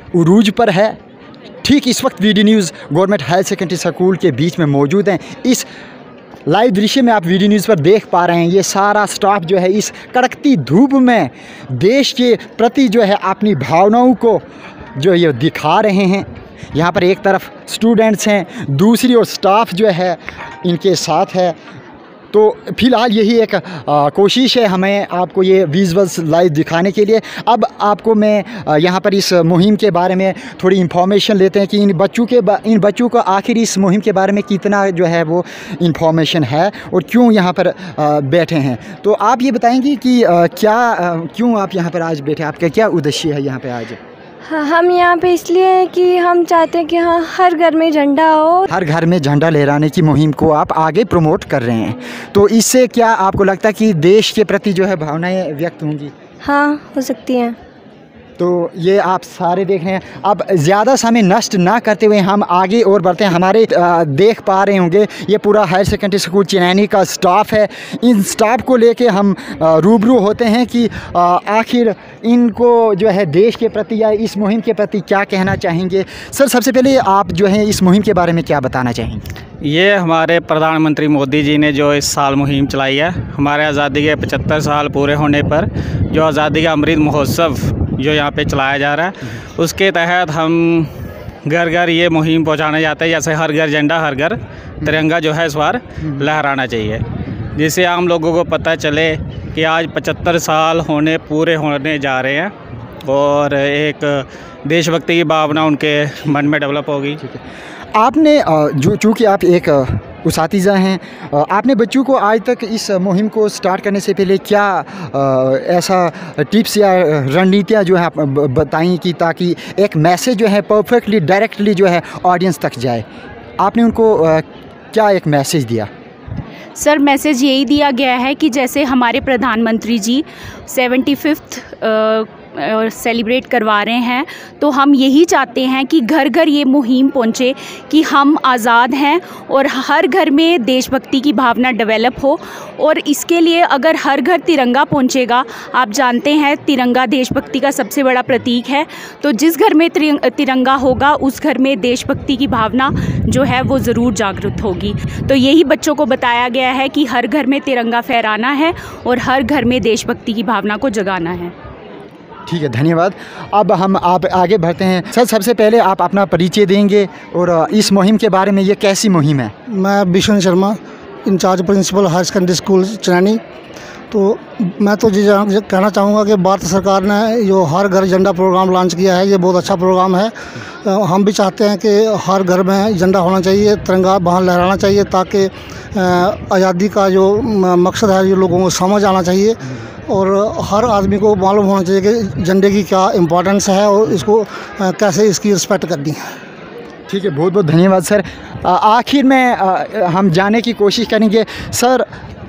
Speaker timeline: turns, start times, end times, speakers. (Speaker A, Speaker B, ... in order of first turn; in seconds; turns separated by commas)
Speaker A: 0.1-1.0, Speaker A: 1.6-5.7, Speaker A: 6.5-14.4, Speaker A: 15.0-21.6, Speaker A: 22.3-44.0, Speaker B: 44.5-48.7, Speaker A: 48.7-56.1, Speaker B: 56.5-57.6, Speaker A: 58.4-79.2, Speaker C: 79.7-90.9, Speaker C: 91.5-97.0, Speaker C: 97.5-102.5, Speaker C: 103.0-107.2, Speaker A: 108.0-123.0, Speaker A: 123.6-125.9, Speaker D: 126.8-161.5, Speaker A: 162.5-169.5, Speaker E: 169.7-173.4, Speaker E: 174.1-180.3, Speaker E: 180.8-189.6, Speaker E: 190.1-196.2, Speaker A: 197.1-202.1